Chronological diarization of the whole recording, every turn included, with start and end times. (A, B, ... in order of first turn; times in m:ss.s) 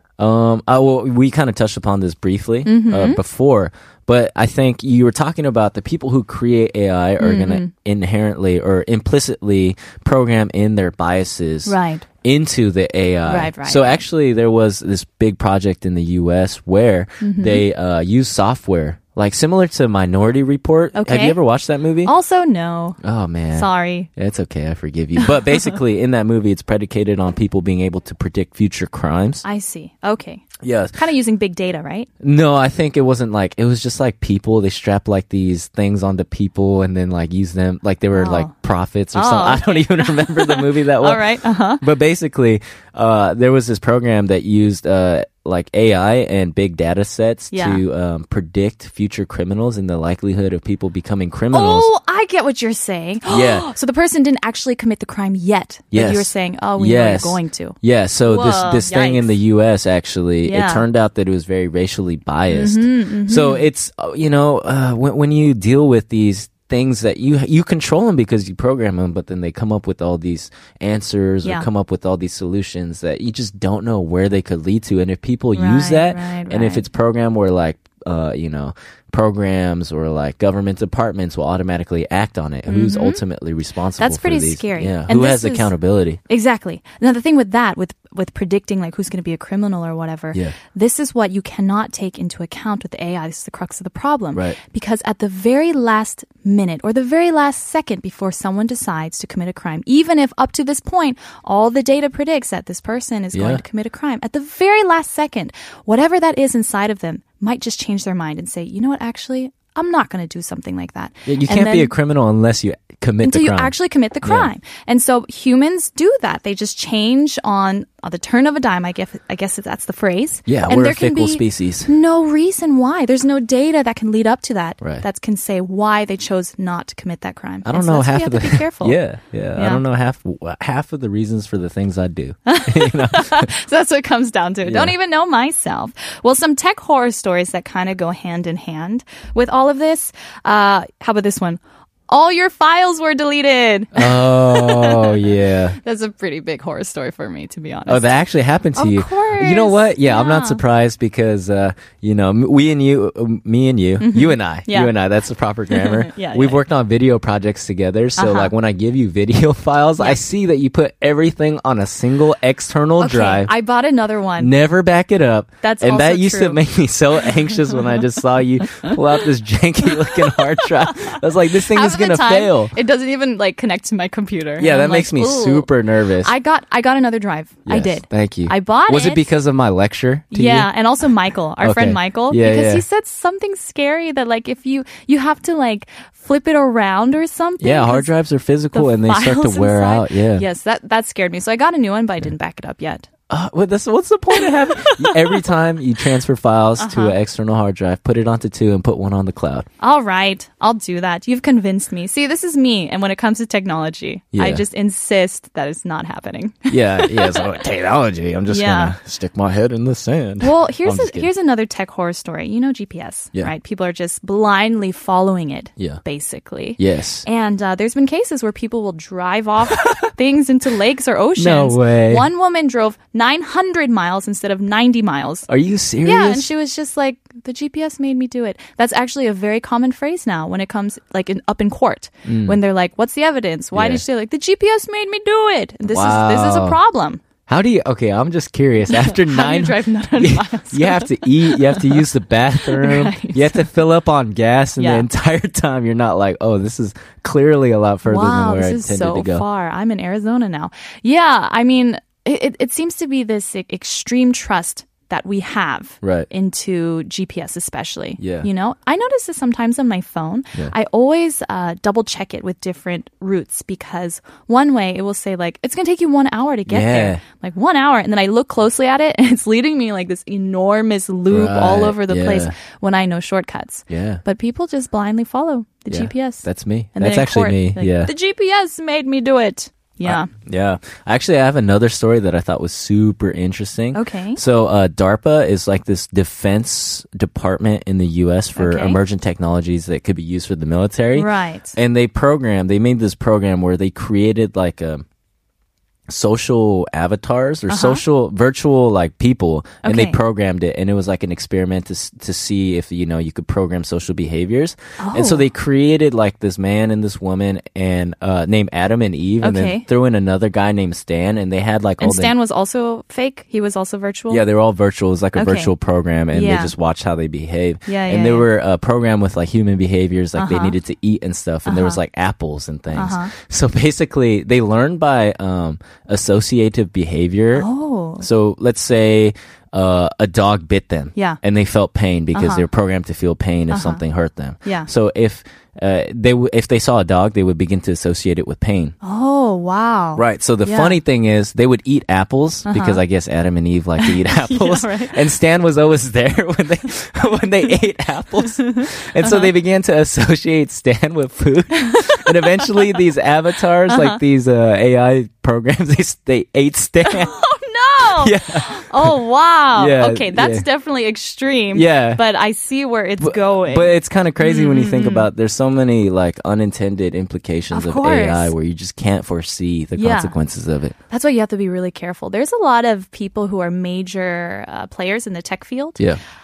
0:00.2-0:22.1 A
0:02.6-0:03.2 B
0:07.2-0:07.7 B
0:11.6-0:12.0 B
0:13.2-0:14.0 B
0:17.2-0:17.6 B
0:20.9-0:21.4 B
0:22.0-0:23.0 B
0:23.0-0:29.4 A
0:23.5-0:24.1 B
0:29.4-0:32.1 B
0:30.6-0:31.0 A
0:32.2-0:41.2 A
0:38.1-0:38.5 B
0:39.1-0:41.8 B
0:41.8-0:51.9 A
0:47.5-0:47.8 B
0:51.5-0:59.4 B
0:53.3-0:53.7 A
0:55.9-1:26.2 A
1:00.4-1:00.9 B
1:02.5-1:03.6 B
1:15.5-1:16.9 B
1:22.7-1:23.2 B
1:24.0-1:25.7 B
1:26.3-1:51.9 B
1:43.3-1:43.6 A
1:51.2-1:54.5 A
1:53.2-2:09.0 B
2:00.5-2:01.9 A
2:07.6-2:13.5 A
2:12.4-2:25.3 B
2:14.6-2:14.9 A
2:23.9-2:25.8 A
2:25.8-2:28.1 B
2:27.9-2:43.5 A
2:28.8-2:30.6 B
2:34.0-2:34.9 B
2:35.7-2:36.6 B
2:38.2-2:38.5 B
2:43.0-2:44.5 B
2:44.4-2:52.7 A
2:45.6-2:46.6 B
2:50.0-2:55.7 B
2:54.6-2:56.3 A
2:56.2-2:59.3 B
2:57.6-3:00.7 A
3:00.3-3:08.1 B
3:01.6-3:02.8 A
3:07.6-3:10.4 A
3:08.7-3:13.1 B
3:13.3-3:19.7 A
3:14.3-3:15.5 B
3:16.8-3:17.2 B
3:19.8-3:27.5 B
3:24.3-3:24.6 A
3:26.7-3:31.3 A
3:28.5-3:28.9 B
3:30.4-3:45.5 B
3:36.8-3:37.2 A
3:39.7-3:40.0 A
3:41.4-3:42.2 A
3:45.5-3:46.5 A
3:46.0-3:57.2 B
3:52.2-3:52.6 A
3:53.7-3:54.0 A
3:55.9-3:56.8 A
3:57.5-4:09.4 A
3:58.9-4:02.0 B
4:02.6-4:03.7 B
4:04.8-4:05.1 B
4:08.0-4:40.3 B
4:16.0-4:16.3 A
4:18.2-4:18.5 A
4:26.7-4:27.2 A
4:31.3-4:32.5 A
4:33.9-4:34.2 A
4:35.9-4:38.1 A
4:40.0-4:55.0 A
4:43.9-4:44.4 B
4:48.6-4:49.0 B
4:51.1-4:51.8 B
4:56.1-5:12.3 A
4:57.7-4:58.0 B
4:59.8-5:00.2 B
5:05.0-5:05.4 B
5:09.4-5:09.8 B
5:12.0-5:14.4 B
5:14.3-5:27.7 A
5:15.3-5:15.7 B
5:16.3-5:16.7 B
5:17.9-5:18.5 B
5:20.4-5:20.8 B
5:21.6-5:22.0 B
5:22.9-5:23.3 B
5:27.5-5:28.2 B
5:28.2-5:38.9 A
5:32.3-5:32.6 B
5:33.7-5:34.0 B
5:39.0-5:41.0 B
5:40.2-5:57.4 A
5:42.6-5:43.0 B
5:44.0-5:45.2 B
5:48.6-5:49.4 B
5:51.8-5:52.8 B
5:53.9-5:54.2 B
5:57.1-6:05.3 B
5:58.2-5:59.1 A
5:59.7-6:00.6 A
6:01.7-6:02.2 A
6:03.2-6:11.0 A
6:07.7-6:08.5 B
6:10.0-6:10.4 B
6:11.1-6:16.0 B